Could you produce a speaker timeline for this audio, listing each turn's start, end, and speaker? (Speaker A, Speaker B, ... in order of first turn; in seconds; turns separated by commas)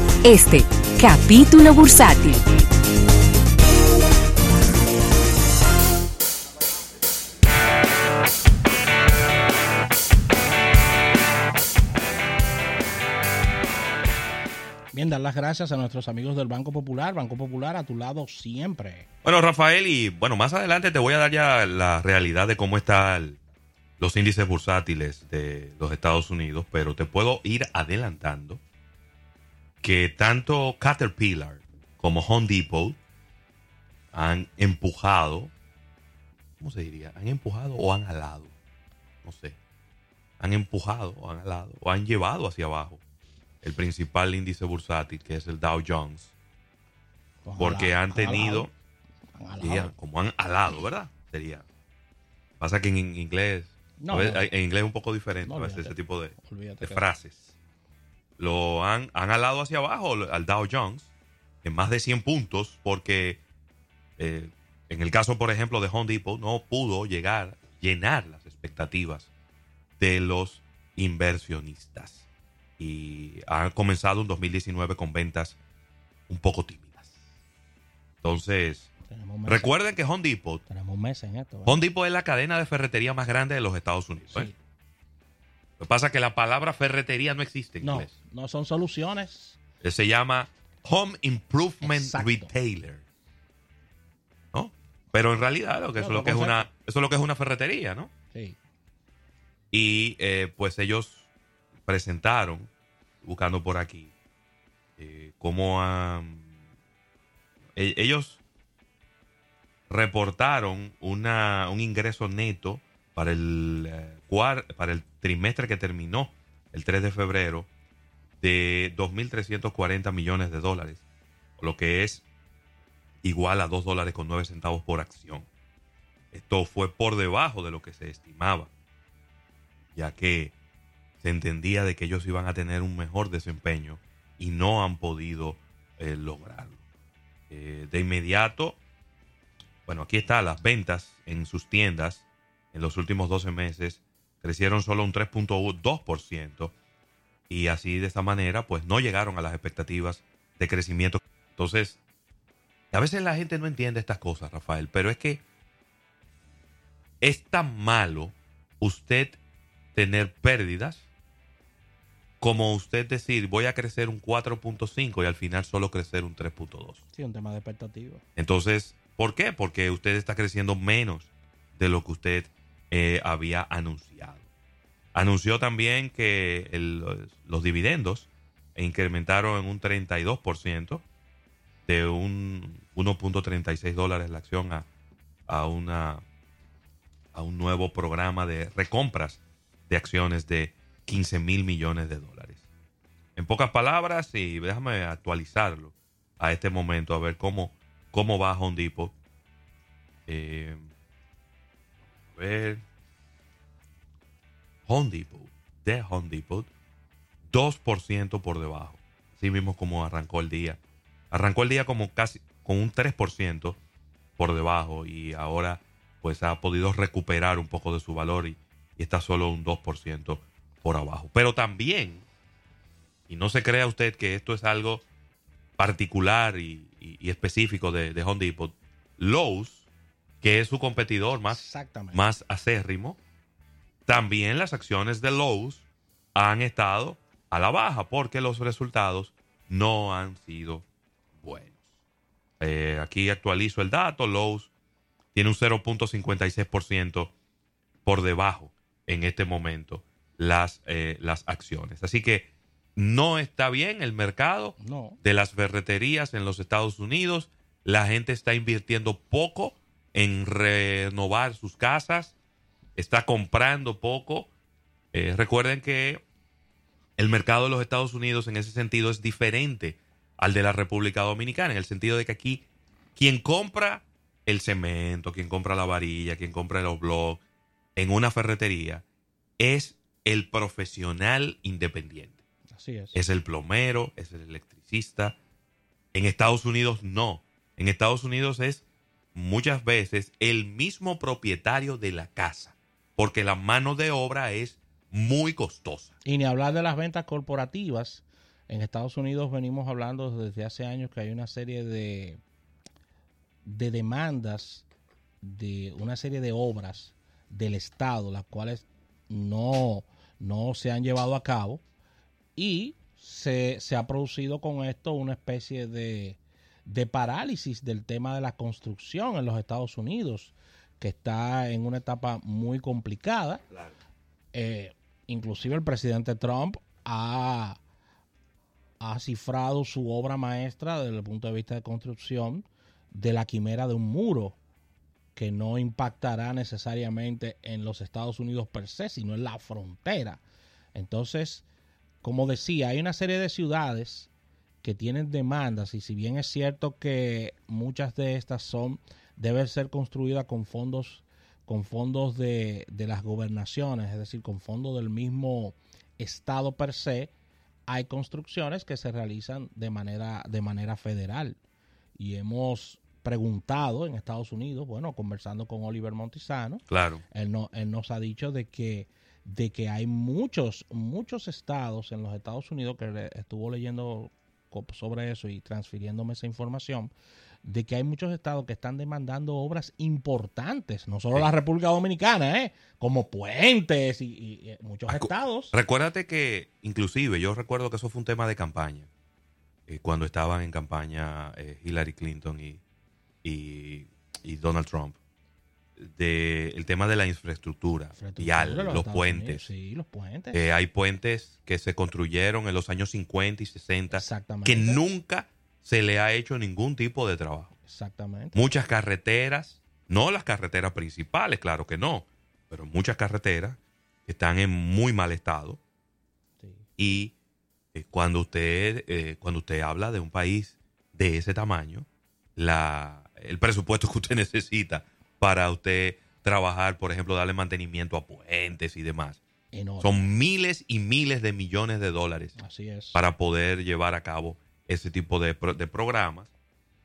Speaker A: 0.2-2.4, Speaker B: 14.9-19.1, Speaker C: 19.2-23.4, Speaker C: 24.0-28.6, Speaker C: 29.8-33.0, Speaker C: 34.1-35.5, Speaker C: 36.6-38.5, Speaker C: 39.2-39.6, Speaker C: 40.4-43.0, Speaker C: 43.6-46.3, Speaker B: 47.4-48.7, Speaker C: 47.6-48.7, Speaker B: 49.4-49.9, Speaker C: 49.6-51.6, Speaker C: 52.6-57.5, Speaker B: 54.0-54.5, Speaker B: 55.5-57.1, Speaker C: 58.4-61.1, Speaker C: 61.6-63.4, Speaker C: 64.2-69.3, Speaker C: 70.0-72.2, Speaker C: 72.8-75.6, Speaker C: 76.3-77.1, Speaker C: 78.2-78.9, Speaker B: 79.1-79.8, Speaker C: 79.5-80.6, Speaker B: 80.7-81.8, Speaker C: 81.7-84.5, Speaker B: 84.3-84.6, Speaker C: 85.8-88.1, Speaker B: 87.8-89.6, Speaker C: 89.8-93.0, Speaker B: 91.8-92.5, Speaker C: 94.5-98.1, Speaker B: 96.0-96.7, Speaker B: 98.3-98.6, Speaker C: 99.7-101.3, Speaker C: 101.9-102.7, Speaker C: 103.2-104.1, Speaker C: 105.0-106.5, Speaker C: 107.8-108.4, Speaker C: 109.9-117.7, Speaker C: 118.4-121.0, Speaker C: 121.6-122.2, Speaker C: 123.2-125.5, Speaker C: 126.3-128.7, Speaker C: 129.9-130.6, Speaker C: 131.2-136.8, Speaker C: 137.5-138.8, Speaker C: 139.9-146.7, Speaker C: 147.5-152.0, Speaker C: 152.9-155.4, Speaker C: 157.2-159.4, Speaker C: 159.9-161.1, Speaker C: 162.4-167.0, Speaker B: 167.1-168.2, Speaker C: 168.4-174.4, Speaker C: 175.1-181.0, Speaker C: 181.9-184.9, Speaker C: 185.5-186.2, Speaker C: 187.3-192.6, Speaker C: 193.4-199.1, Speaker C: 200.3-200.8, Speaker C: 202.3-202.8, Speaker C: 204.9-206.7, Speaker C: 207.5-210.8, Speaker C: 211.3-213.8, Speaker C: 214.4-222.2, Speaker C: 223.3-225.1, Speaker C: 225.8-229.9, Speaker C: 230.4-231.6, Speaker B: 231.5-232.3, Speaker C: 232.1-233.2, Speaker C: 234.1-240.8, Speaker C: 241.4-241.7, Speaker C: 242.6-244.7, Speaker C: 245.3-247.3, Speaker C: 248.1-262.3, Speaker B: 254.8-255.2, Speaker C: 263.0-264.5, Speaker C: 265.1-266.2, Speaker C: 267.2-272.6, Speaker C: 273.2-277.4, Speaker C: 278.0-279.0, Speaker C: 279.6-282.4, Speaker B: 282.7-283.2, Speaker C: 283.1-285.4, Speaker C: 286.1-288.8, Speaker C: 289.4-296.1, Speaker B: 296.2-302.4, Speaker B: 303.6-304.9, Speaker B: 305.4-311.8, Speaker B: 312.6-323.6, Speaker B: 324.5-327.8, Speaker B: 329.0-334.6, Speaker B: 335.4-340.4, Speaker B: 340.9-341.7, Speaker B: 342.2-344.3, Speaker B: 344.8-357.3, Speaker B: 357.9-361.6, Speaker B: 362.2-377.1, Speaker C: 366.9-367.2, Speaker B: 377.6-385.8, Speaker C: 385.1-389.1, Speaker C: 389.9-392.8, Speaker C: 393.4-395.2, Speaker C: 396.0-399.7, Speaker B: 398.1-400.7, Speaker C: 400.5-407.7, Speaker B: 404.1-405.0, Speaker B: 407.9-408.6, Speaker C: 408.6-415.8, Speaker C: 417.0-417.3, Speaker C: 417.9-429.4, Speaker B: 429.7-430.3, Speaker C: 430.0-432.6, Speaker B: 432.6-433.2, Speaker C: 433.1-436.5